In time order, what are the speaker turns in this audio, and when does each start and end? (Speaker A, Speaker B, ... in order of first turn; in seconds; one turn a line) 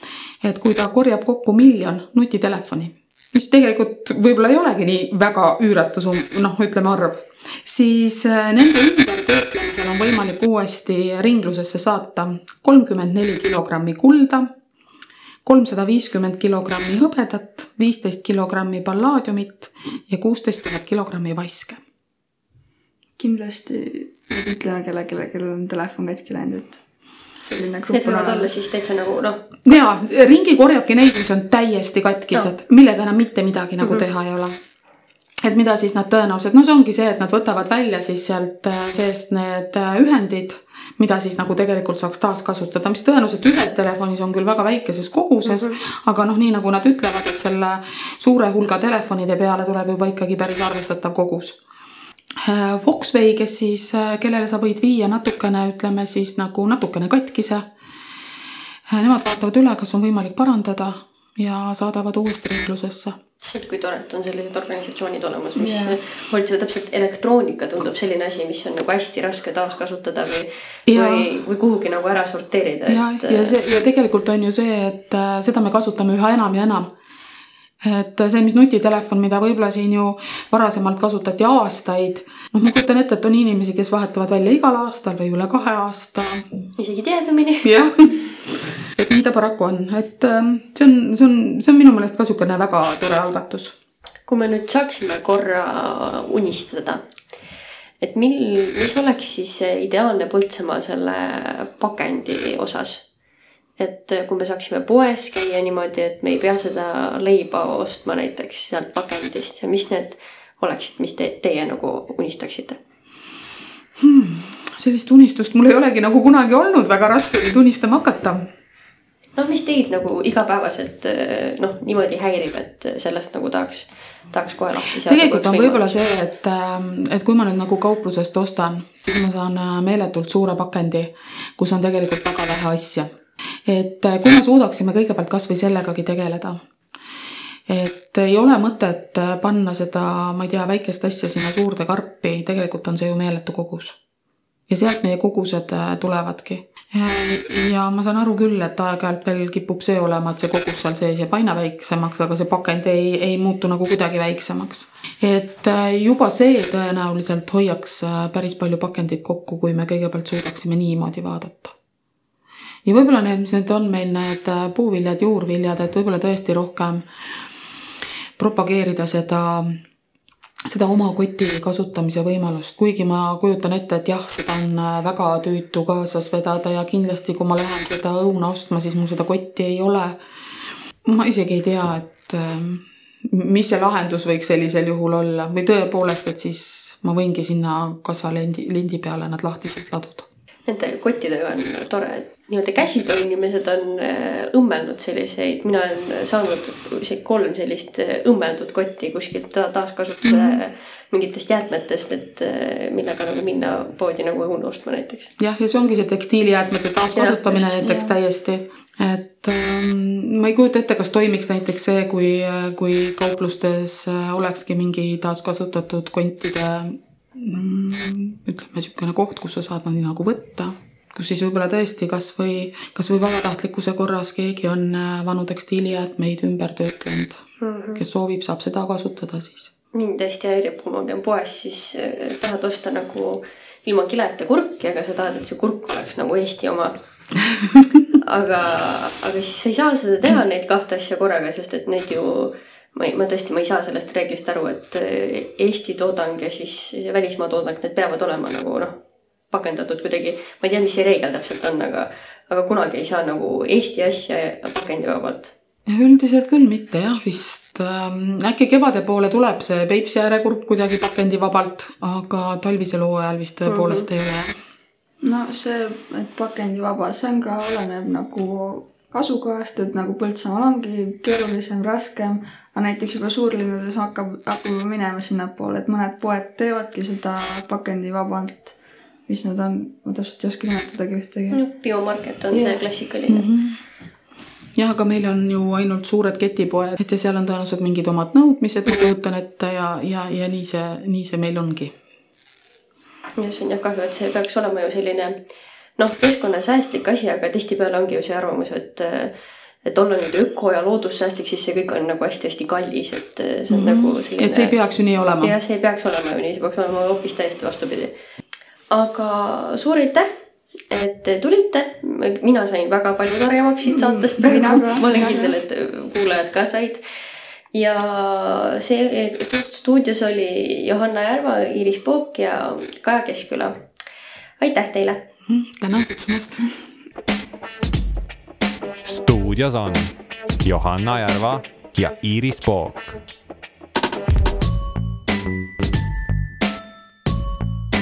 Speaker A: 0.4-14.5
Speaker A: 15.4-21.8
Speaker B: 23.2-26.8
Speaker B: 27.4-28.5
Speaker C: 27.9-29.5
Speaker A: 29.6-34.5
Speaker A: 35.4-51.6
Speaker C: 45.5-45.8
Speaker A: 52.4-57.7
Speaker A: 58.9-63.2
Speaker C: 63.4-73.5
Speaker B: 65.6-66.0
Speaker A: 70.9-71.2
Speaker A: 72.9-76.9
Speaker A: 77.8-86.4
Speaker C: 86.8-87.7
Speaker A: 87.6-93.7
Speaker C: 94.3-97.0
Speaker C: 98.0-103.0
Speaker C: 103.8-112.8
Speaker A: 114.0-118.4
Speaker C: 119.3-126.0
Speaker A: 125.0-133.1
Speaker A: 133.7-136.6
Speaker A: 137.7-144.0
Speaker A: 144.7-161.8
Speaker A: 162.8-167.0
Speaker A: 168.4-169.8
Speaker A: 170.7-180.2
Speaker A: 181.0-190.3
Speaker C: 190.7-205.3
Speaker A: 200.2-200.6
Speaker A: 205.4-227.4
Speaker C: 207.2-208.0
Speaker C: 227.6-228.0
Speaker A: 228.0-229.7
Speaker C: 229.9-236.9
Speaker C: 238.2-248.9
Speaker C: 249.5-255.5
Speaker A: 255.9-264.5
Speaker C: 263.7-264.1
Speaker B: 265.2-278.7
Speaker B: 279.3-281.6
Speaker C: 281.5-283.4
Speaker B: 282.5-282.8
Speaker A: 283.3-283.8
Speaker A: 284.8-291.9
Speaker C: 293.4-295.4
Speaker C: 296.0-304.7
Speaker A: 303.7-305.5
Speaker C: 305.4-308.1
Speaker C: 308.9-310.3
Speaker C: 310.9-317.0
Speaker B: 313.9-315.6
Speaker C: 317.7-323.8
Speaker C: 324.6-325.2
Speaker A: 325.5-326.7
Speaker D: 329.0-333.2